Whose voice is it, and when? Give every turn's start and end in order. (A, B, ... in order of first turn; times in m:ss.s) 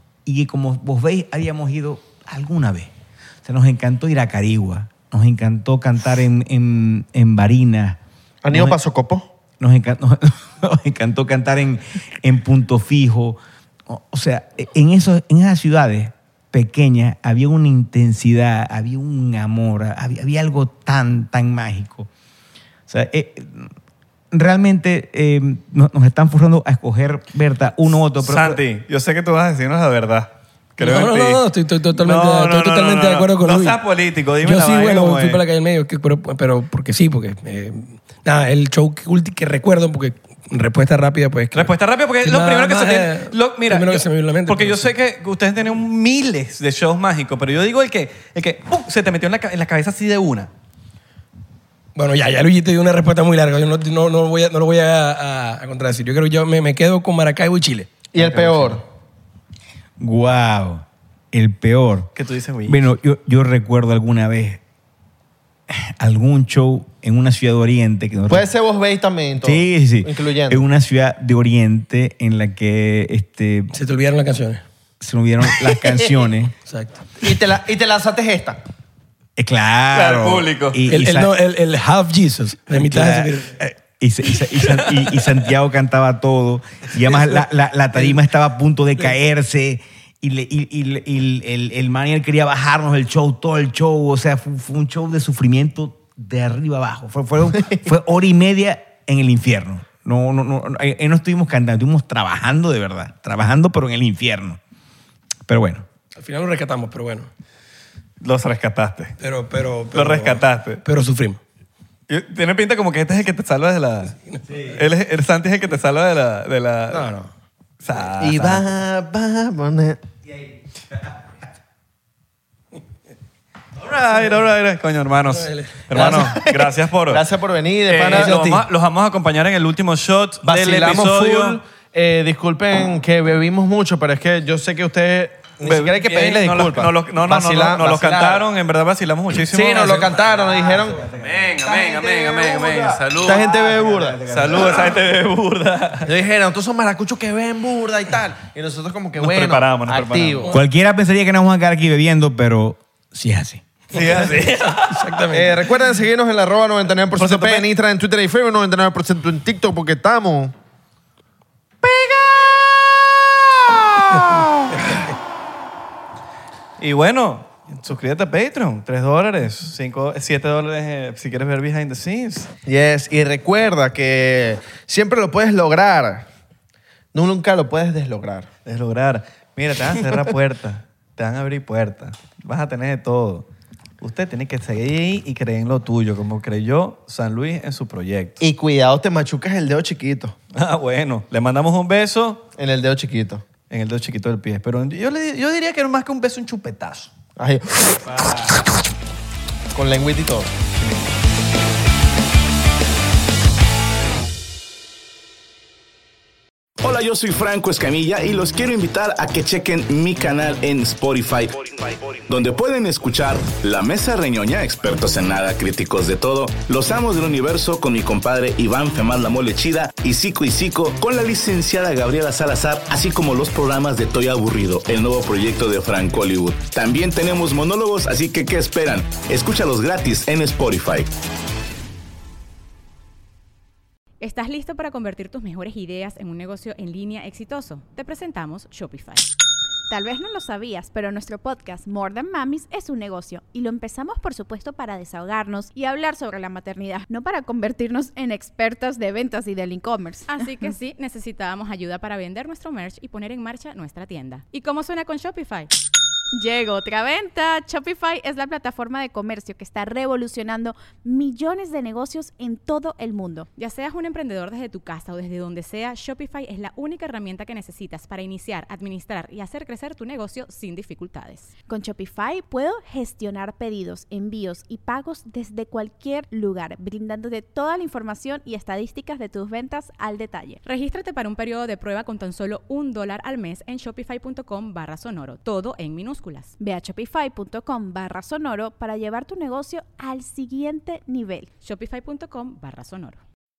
0:00.3-0:02.9 A
0:03.4-0:08.8 A
0:08.4-0:09.3 B
0:09.6-0:22.1 A
0:22.9-0:23.7 A
0:24.3-0:28.6 A
0:28.2-0:31.4 C
0:30.8-0:33.8 D
0:32.0-0:35.4 C
0:34.4-0:41.7 D
0:41.5-0:50.5 C
0:42.2-0:44.9 D
0:52.0-0:58.8 D
0:58.1-0:58.8 B
1:00.0-1:02.1 A
1:02.2-1:02.9 C
1:02.7-1:04.6 A
1:05.7-1:08.5 A
1:08.3-1:10.6 B
1:09.4-1:13.7 A
1:13.7-1:14.6 D
1:15.0-1:16.5 A
1:16.7-1:17.0 D
1:17.2-1:18.6 B
1:19.4-1:21.3 A
1:19.9-1:20.8 C
1:20.9-1:23.6 D
1:22.7-1:44.6 A
1:45.5-1:45.9 A
1:46.2-1:47.3 D
1:48.2-1:49.2 C
1:49.2-1:51.4 D
1:49.9-1:50.8 C
1:52.1-1:57.1 C
1:56.9-1:57.3 D
1:57.8-1:58.7 C
1:58.2-2:00.0 B
2:03.8-2:07.3 C
2:05.3-2:05.8 D
2:05.9-2:08.6 B
2:07.9-2:11.6 C
2:10.4-2:18.5 B
2:15.6-2:20.2 C
2:19.4-2:21.1 B
2:20.1-2:25.0 A
2:21.2-2:23.5 C
2:21.7-2:22.4 B
2:23.2-2:24.2 B
2:24.3-2:26.1 C
2:26.1-2:30.5 B
2:29.2-2:30.5 C
2:30.5-2:33.6 A
2:33.9-2:35.2 C
2:33.9-2:35.6 D
2:35.3-2:40.5 B
2:37.2-2:37.7 C
2:41.8-2:45.0 C
2:44.1-2:45.0 D
2:46.8-2:52.5 C
2:52.7-2:56.3 B
2:57.1-2:58.5 B
2:58.6-3:03.5 C
3:04.0-3:08.4 C
3:08.4-3:10.4 B
3:10.5-3:12.4 C
3:12.6-3:13.4 B
3:13.7-3:17.1 C
3:17.4-3:18.6 B
3:19.7-3:20.5 B
3:26.8-3:51.1 E
3:54.2-3:59.3 F
3:59.9-4:10.4 G
4:10.3-4:15.7 F
4:16.3-4:23.5 G
4:23.6-4:31.5 F
4:31.7-4:40.6 G
4:40.6-4:46.6 F
4:46.6-4:51.5 G
4:51.6-4:53.2 F